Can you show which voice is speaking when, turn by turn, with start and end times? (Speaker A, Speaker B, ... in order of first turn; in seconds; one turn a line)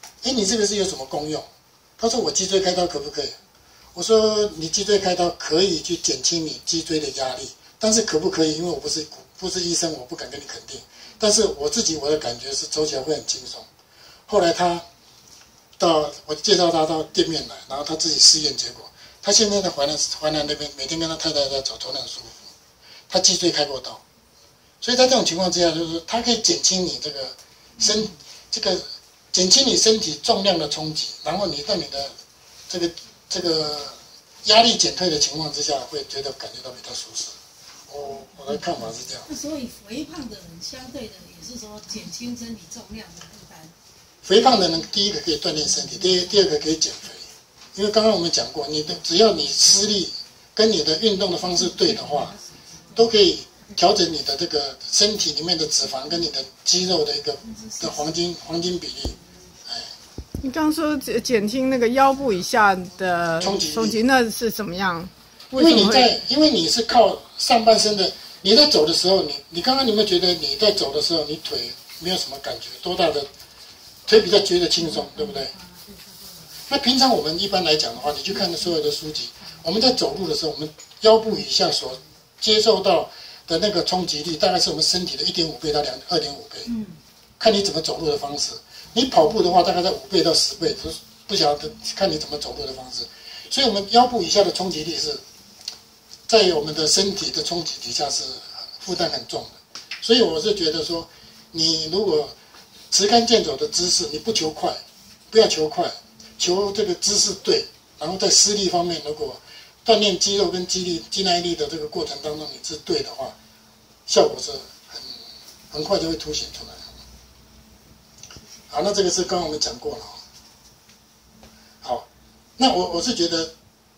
Speaker A: 0.2-1.5
Speaker A: 2.0-3.4
Speaker A: 3.9-13.7
Speaker A: 14.3-14.8
Speaker A: 15.8-22.4
Speaker A: 23.1-24.0
Speaker A: 24.8-32.1
Speaker A: 32.7-37.4
Speaker A: 37.9-39.3
Speaker B: 39.2-43.7
Speaker A: 44.2-52.3
Speaker B: 45.7-46.5
Speaker B: 51.5-53.1
Speaker A: 52.9-59.9
Speaker B: 57.4-58.2
Speaker B: 59.1-59.4
Speaker C: 60.4-66.1
Speaker B: 60.9-62.6
Speaker A: 63.4-64.0
Speaker A: 65.5-73.3
Speaker A: 74.1-75.5
Speaker B: 74.8-76.5
Speaker A: 76.7-86.7
Speaker B: 78.3-78.7
Speaker B: 86.7-87.0
Speaker A: 87.4-95.2
Speaker A: 96.3-102.3
Speaker A: 102.9-113.3
Speaker A: 114.1-115.2
Speaker A: 115.7-116.9
Speaker A: 118.7-120.2
Speaker A: 122.6-123.5